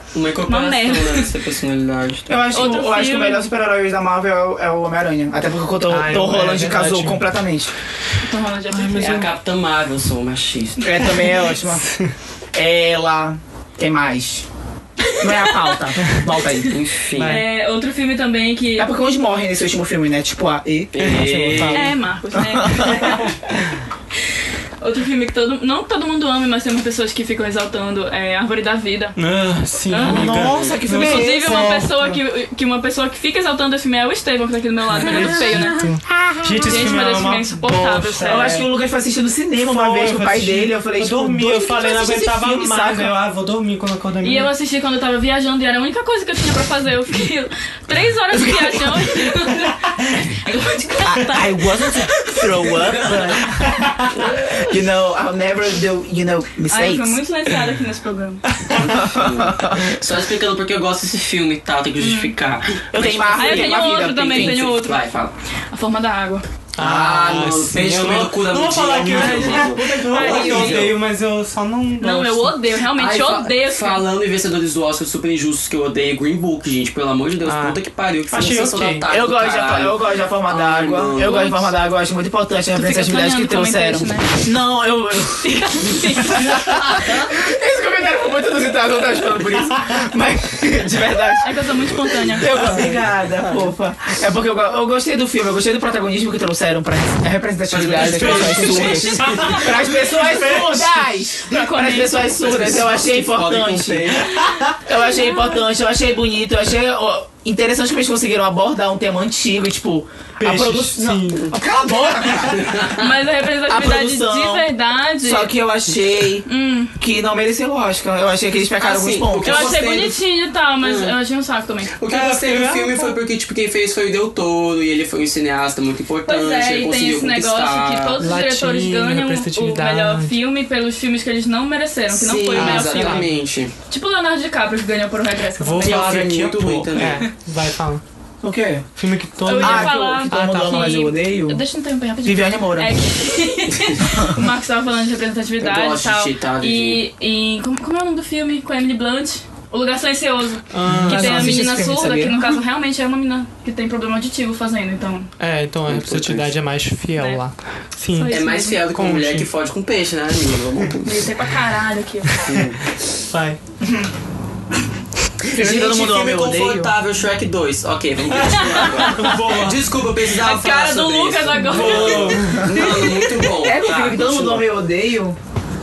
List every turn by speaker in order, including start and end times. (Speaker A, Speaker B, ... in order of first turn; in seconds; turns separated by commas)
Speaker A: 0.1-2.4, Speaker B: 0.5-1.3, Speaker C: 2.3-7.7, Speaker B: 2.5-3.4, Speaker D: 5.9-7.2, Speaker B: 8.2-9.3, Speaker D: 8.7-9.3, Speaker A: 8.9-11.1, Speaker C: 10.8-11.9, Speaker D: 11.2-12.1, Speaker C: 12.5-14.4, Speaker B: 15.1-15.7, Speaker C: 15.2-16.8, Speaker A: 16.7-17.4, Speaker D: 17.1-17.5, Speaker B: 17.2-18.9, Speaker C: 18.8-21.7, Speaker A: 20.9-22.0, Speaker D: 21.0-22.0, Speaker B: 21.7-23.3, Speaker C: 22.3-23.3, Speaker D: 22.8-23.2, Speaker B: 24.8-29.2, Speaker D: 29.1-32.1, Speaker B: 29.9-35.8, Speaker C: 29.9-31.9, Speaker A: 30.3-30.8, Speaker D: 34.9-38.7, Speaker C: 35.9-36.8, Speaker B: 36.6-38.6, Speaker C: 38.2-43.2, Speaker D: 39.6-44.5, Speaker B: 44.2-53.5, Speaker C: 48.3-49.0, Speaker C: 51.0-53.8, Speaker D: 53.6-54.1, Speaker C: 54.4-57.2, Speaker B: 56.7-58.4, Speaker C: 58.8-59.9, Speaker A: 58.9-65.3, Speaker B: 62.0-62.3, Speaker C: 62.9-64.7, Speaker B: 63.4-65.1, Speaker B: 65.7-66.4, Speaker D: 66.8-72.6, Speaker A: 66.8-71.0, Speaker B: 69.2-70.8, Speaker C: 70.2-70.7, Speaker B: 72.0-74.0, Speaker A: 72.9-81.6, Speaker D: 77.4-79.0, Speaker C: 79.1-91.5, Speaker B: 82.7-84.3, Speaker B: 85.4-86.8, Speaker B: 91.4-92.7, Speaker C: 92.1-112.9, Speaker A: 97.7-99.7, Speaker D: 97.9-101.0, Speaker B: 99.2-99.6, Speaker B: 101.4-102.4, Speaker A: 102.4-104.5, Speaker D: 104.4-104.7, Speaker B: 104.9-105.6, Speaker D: 110.4-111.5, Speaker A: 112.5-112.9, Speaker B: 112.8-115.5, Speaker C: 113.7-114.7, Speaker C: 115.2-119.8, Speaker B: 116.5-117.0, Speaker A: 118.8-120.2, Speaker B: 119.4-121.9, Speaker A: 120.8-121.2, Speaker A: 121.9-128.2, Speaker D: 122.0-123.2, Speaker B: 126.2-133.3, Speaker D: 128.2-130.3, Speaker A: 132.2-133.7, Speaker D: 132.5-133.3, Speaker B: 133.9-136.3, Speaker D: 135.6-138.0, Speaker A: 135.8-137.2, Speaker C: 138.4-138.8, Speaker D: 139.0-141.0, Speaker B: 139.4-155.3, Speaker C: 139.5-141.6, Speaker C: 142.2-142.9, Speaker C: 144.0-144.4, Speaker A: 145.6-147.0, Speaker D: 150.7-151.7, Speaker C: 150.9-152.6, Speaker D: 155.4-159.5, Speaker A: 155.9-156.5, Speaker B: 157.2-157.4, Speaker B: 158.1-158.8, Speaker A: 158.3-161.3, Speaker B: 161.0-162.5, Speaker D: 162.3-162.6, Speaker A: 162.4-162.9, Speaker D: 163.2-163.6, Speaker C: 163.8-164.1, Speaker A: 165.4-174.7, Speaker C: 165.5-166.9, Speaker D: 168.4-169.9, Speaker B: 168.6-169.4, Speaker B: 170.3-173.3, Speaker D: 171.6-172.8, Speaker C: 172.4-175.4